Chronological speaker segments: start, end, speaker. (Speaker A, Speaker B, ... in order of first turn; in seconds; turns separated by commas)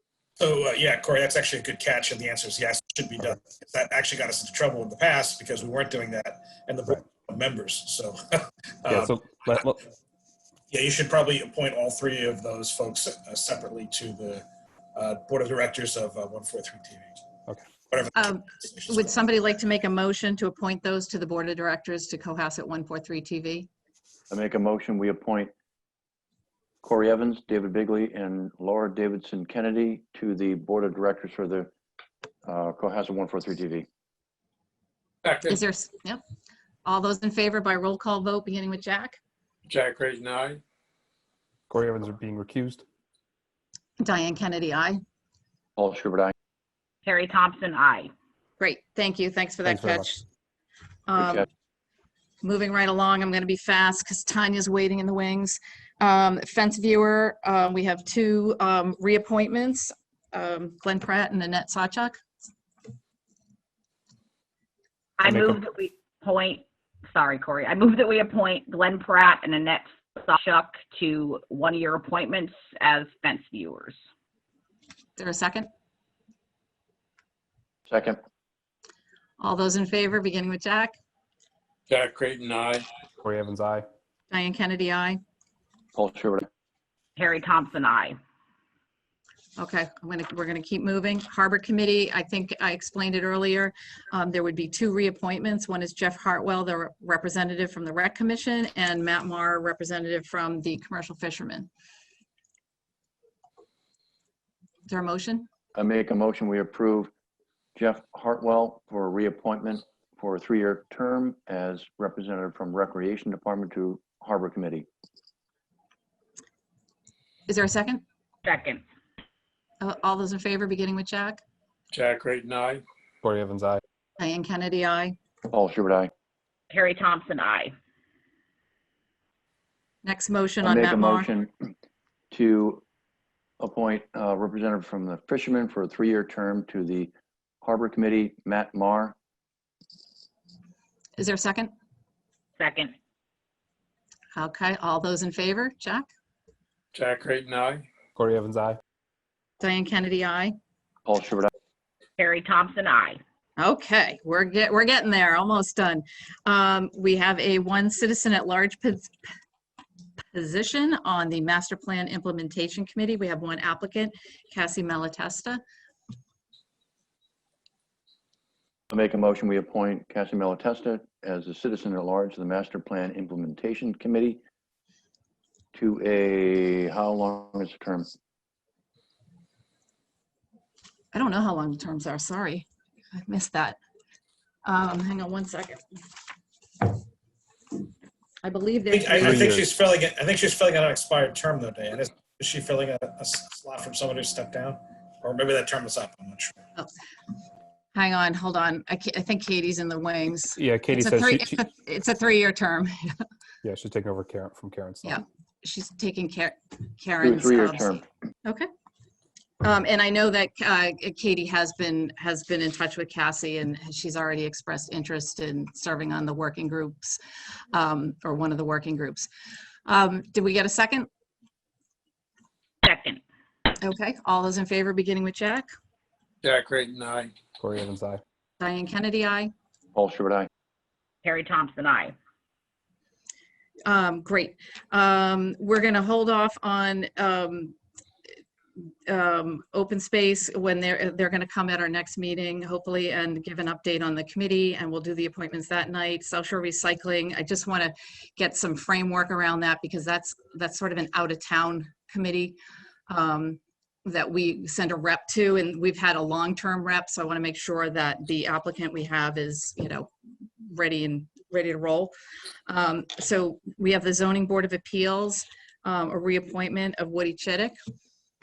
Speaker A: 0.4-9.1, Speaker B: 8.9-9.8, Speaker A: 10.7-17.2, Speaker A: 17.9-19.2, Speaker C: 18.1-23.7, Speaker D: 24.3-25.5, Speaker D: 26.8-31.7, Speaker D: 32.5-33.9, Speaker E: 35.2-35.6, Speaker C: 35.5-36.2, Speaker C: 36.8-39.2, Speaker E: 39.7-40.6, Speaker B: 41.7-42.8, Speaker C: 44.0-45.0, Speaker D: 45.8-46.3, Speaker F: 47.0-48.1, Speaker C: 48.6-50.2, Speaker B: 49.6-50.1, Speaker C: 51.1-51.5, Speaker C: 52.4-62.2, Speaker F: 65.2-74.0, Speaker B: 65.2-65.6, Speaker C: 75.2-75.7, Speaker D: 77.9-78.2, Speaker C: 79.4-80.9, Speaker E: 81.9-82.8, Speaker B: 83.2-83.9, Speaker C: 84.3-85.2, Speaker D: 86.0-86.5, Speaker F: 87.2-88.2, Speaker C: 89.6-101.7, Speaker C: 104.9-105.5, Speaker D: 105.7-107.1, Speaker D: 107.8-114.9, Speaker C: 117.5-118.0, Speaker F: 118.4-118.8, Speaker C: 119.8-121.4, Speaker E: 121.9-122.8, Speaker B: 123.2-123.8, Speaker C: 124.2-125.2, Speaker D: 125.5-126.1, Speaker F: 126.7-127.7, Speaker C: 130.0-131.3, Speaker D: 130.6-131.5, Speaker D: 132.3-132.8, Speaker D: 133.6-137.1, Speaker D: 137.6-139.1, Speaker C: 141.2-141.7, Speaker F: 142.6-142.9, Speaker C: 144.3-146.1, Speaker E: 146.9-147.8, Speaker B: 148.2-148.8, Speaker C: 149.6-150.6, Speaker D: 151.1-151.5, Speaker F: 152.2-153.2, Speaker C: 153.6-159.1, Speaker C: 160.3-165.6, Speaker D: 168.9-174.4, Speaker D: 175.7-178.1, Speaker C: 181.1-183.8, Speaker C: 184.7-185.8, Speaker C: 188.4-189.5, Speaker A: 188.9-196.6, Speaker B: 189.2-189.7, Speaker C: 197.9-203.2, Speaker B: 200.6-201.6, Speaker B: 203.6-205.2, Speaker C: 205.0-208.7, Speaker D: 207.2-208.0, Speaker C: 209.6-217.2, Speaker C: 217.7-219.3, Speaker C: 219.9-221.1, Speaker F: 222.8-223.2, Speaker C: 223.8-225.7, Speaker E: 226.4-227.3, Speaker B: 227.6-228.2, Speaker C: 228.6-229.5, Speaker D: 229.9-230.5, Speaker F: 231.2-232.1, Speaker C: 233.8-237.7, Speaker C: 239.1-252.6, Speaker C: 253.1-260.1, Speaker C: 260.6-262.1, Speaker C: 262.7-267.8